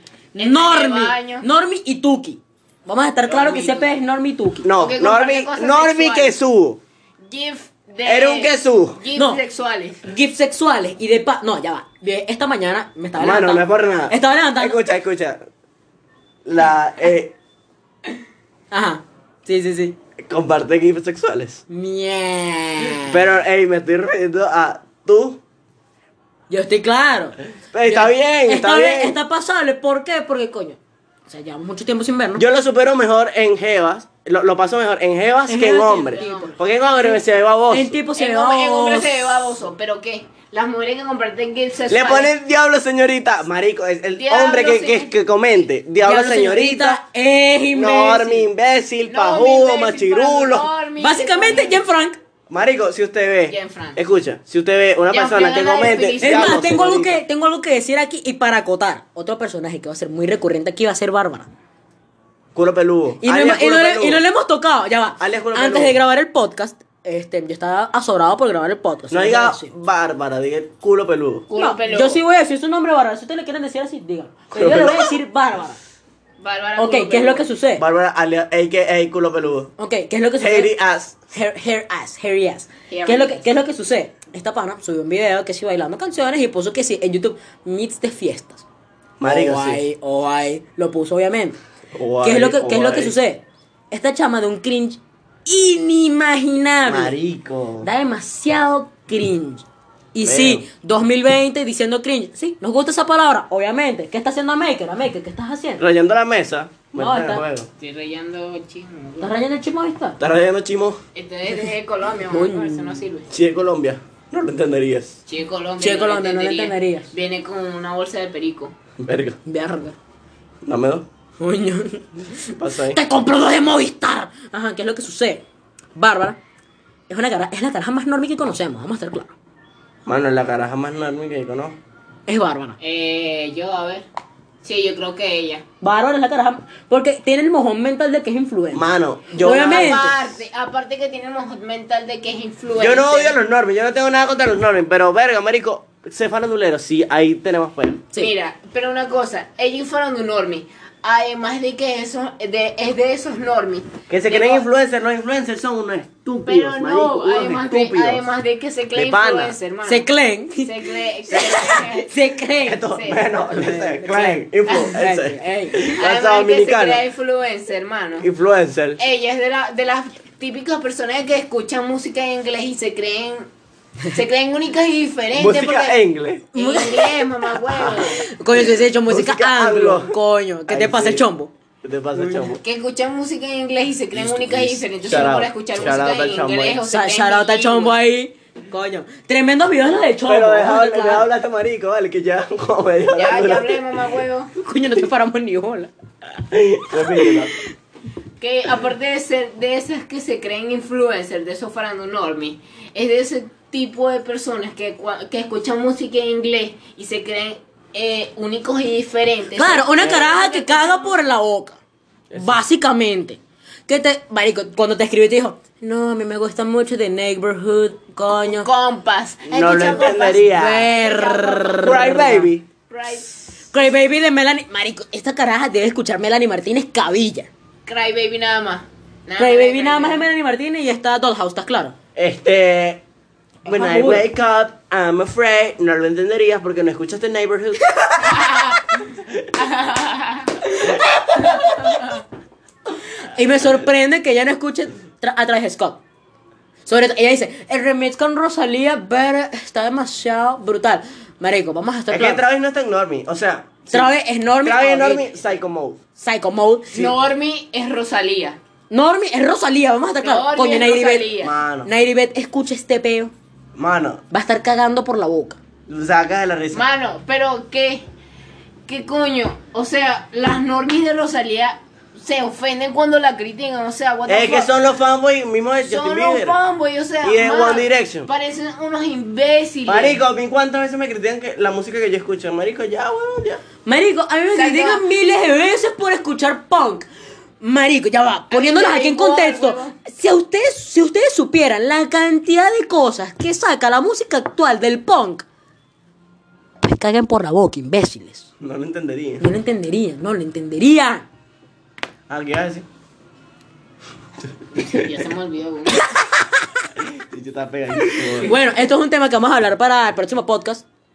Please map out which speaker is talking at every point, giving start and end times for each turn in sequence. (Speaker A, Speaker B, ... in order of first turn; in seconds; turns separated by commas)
Speaker A: 0.3-1.4, Speaker B: 0.3-4.7, Speaker A: 3.2-3.9, Speaker C: 4.6-6.8, Speaker A: 4.7-6.3, Speaker A: 7.3-10.0, Speaker C: 8.0-9.0, Speaker B: 9.1-9.4, Speaker B: 10.0-14.8, Speaker C: 13.2-15.4, Speaker C: 16.4-17.3, Speaker B: 18.7-19.9, Speaker C: 20.2-21.6, Speaker B: 21.7-23.2, Speaker C: 22.9-25.4, Speaker B: 26.5-32.4, Speaker C: 27.7-29.1, Speaker C: 32.4-37.9, Speaker B: 35.5-37.1, Speaker A: 36.0-36.5, Speaker B: 37.7-39.3, Speaker A: 38.1-42.3, Speaker C: 41.9-47.0, Speaker A: 44.2-45.1, Speaker B: 46.0-48.5, Speaker C: 47.7-50.7, Speaker A: 49.1-51.8, Speaker B: 51.0-52.2, Speaker C: 52.5-57.2, Speaker A: 53.5-54.0, Speaker A: 55.1-56.8, Speaker B: 56.2-61.5, Speaker C: 62.5-64.2, Speaker B: 63.2-69.7, Speaker C: 65.2-66.0, Speaker C: 69.1-71.5, Speaker A: 71.5-72.2, Speaker B: 71.6-75.8, Speaker C: 74.5-75.1, Speaker A: 76.4-77.5, Speaker B: 76.8-77.8, Speaker C: 77.8-79.7, Speaker B: 79.8-80.7, Speaker C: 80.4-81.2, Speaker B: 81.3-88.6, Speaker A: 82.9-83.5, Speaker C: 89.2-89.8, Speaker B: 89.2-91.6, Speaker C: 91.9-93.1, Speaker B: 92.2-97.2, Speaker C: 96.8-97.9, Speaker B: 97.8-105.8, Speaker C: 100.2-100.6, Speaker C: 105.8-107.7, Speaker B: 107.0-107.4, Speaker A: 107.8-109.3, Speaker B: 109.2-110.2, Speaker C: 110.2-111.0, Speaker A: 111.1-113.3, Speaker B: 112.3-113.0, Speaker C: 113.3-115.2, Speaker A: 115.3-118.7, Speaker B: 115.8-117.1, Speaker C: 119.0-119.4, Speaker B: 119.4-120.0, Speaker C: 120.6-121.0, Speaker B: 121.4-125.4, Speaker C: 122.5-123.0, Speaker B: 126.0-126.4, Speaker B: 127.1-129.3, Speaker C: 130.1-131.8, Speaker B: 132.3-132.8, Speaker A: 132.8-134.1, Speaker A: 134.6-135.6, Speaker B: 135.8-138.9, Speaker C: 138.7-140.1, Speaker B: 139.4-140.2, Speaker A: 139.4-143.3, Speaker C: 142.8-148.0, Speaker A: 148.2-154.6, Speaker C: 154.1-158.3, Speaker A: 156.4-160.1, Speaker C: 158.9-159.6, Speaker B: 159.8-162.8, Speaker A: 160.6-162.1, Speaker C: 161.3-161.7, Speaker C: 162.6-167.0, Speaker A: 162.9-163.3, Speaker B: 163.5-165.9, Speaker A: 164.7-165.0, Speaker A: 166.0-168.3, Speaker C: 168.2-169.0, Speaker A: 169.0-173.5, Speaker A: 174.1-176.0, Speaker C: 175.3-176.5, Speaker B: 176.5-177.2, Speaker A: 176.5-178.2, Speaker C: 177.7-180.2, Speaker B: 177.9-181.5, Speaker C: 180.7-181.2, Speaker C: 181.8-182.6, Speaker B: 182.1-182.5, Speaker A: 182.6-187.9, Speaker C: 184.1-186.8, Speaker B: 186.9-191.3, Speaker C: 190.2-193.8, Speaker A: 193.1-194.5, Speaker B: 194.6-195.9, Speaker C: 196.5-197.5, Speaker A: 198.4-211.2, Speaker B: 209.5-211.8, Speaker C: 210.0-210.3, Speaker C: 212.3-212.6, Speaker B: 212.3-218.7, Speaker A: 218.4-222.0, Speaker C: 219.4-220.9, Speaker B: 220.5-222.5, Speaker C: 221.8-222.7, Speaker A: 222.9-223.5, Speaker B: 223.7-227.5, Speaker A: 227.8-230.2, Speaker B: 229.4-231.9, Speaker C: 232.1-233.0, Speaker B: 233.6-234.3, Speaker C: 233.7-238.4, Speaker A: 238.2-238.8, Speaker C: 239.2-239.5, Speaker A: 239.6-240.6, Speaker B: 240.7-241.8, Speaker A: 241.5-242.0, Speaker B: 243.2-246.0, Speaker B: 246.8-252.4, Speaker C: 252.1-254.1, Speaker B: 253.9-255.3, Speaker C: 254.6-256.0, Speaker B: 256.1-257.0, Speaker A: 256.9-258.6, Speaker B: 258.9-261.3, Speaker A: 260.2-261.5, Speaker C: 261.4-261.9, Speaker B: 261.8-263.3, Speaker C: 263.7-264.2, Speaker B: 264.3-265.6, Speaker C: 265.9-266.8, Speaker A: 266.7-268.1, Speaker A: 268.9-274.7, Speaker C: 274.2-276.6, Speaker A: 275.8-280.2, Speaker C: 277.2-278.3, Speaker C: 279.9-283.6, Speaker B: 283.8-287.1, Speaker A: 284.5-285.1, Speaker B: 287.6-295.4, Speaker A: 288.5-290.0, Speaker B: 296.8-298.5, Speaker C: 298.6-299.5, Speaker B: 299.4-301.3, Speaker C: 302.3-302.9, Speaker A: 304.8-306.0, Speaker B: 306.1-306.6, Speaker C: 307.0-308.6, Speaker B: 308.0-310.8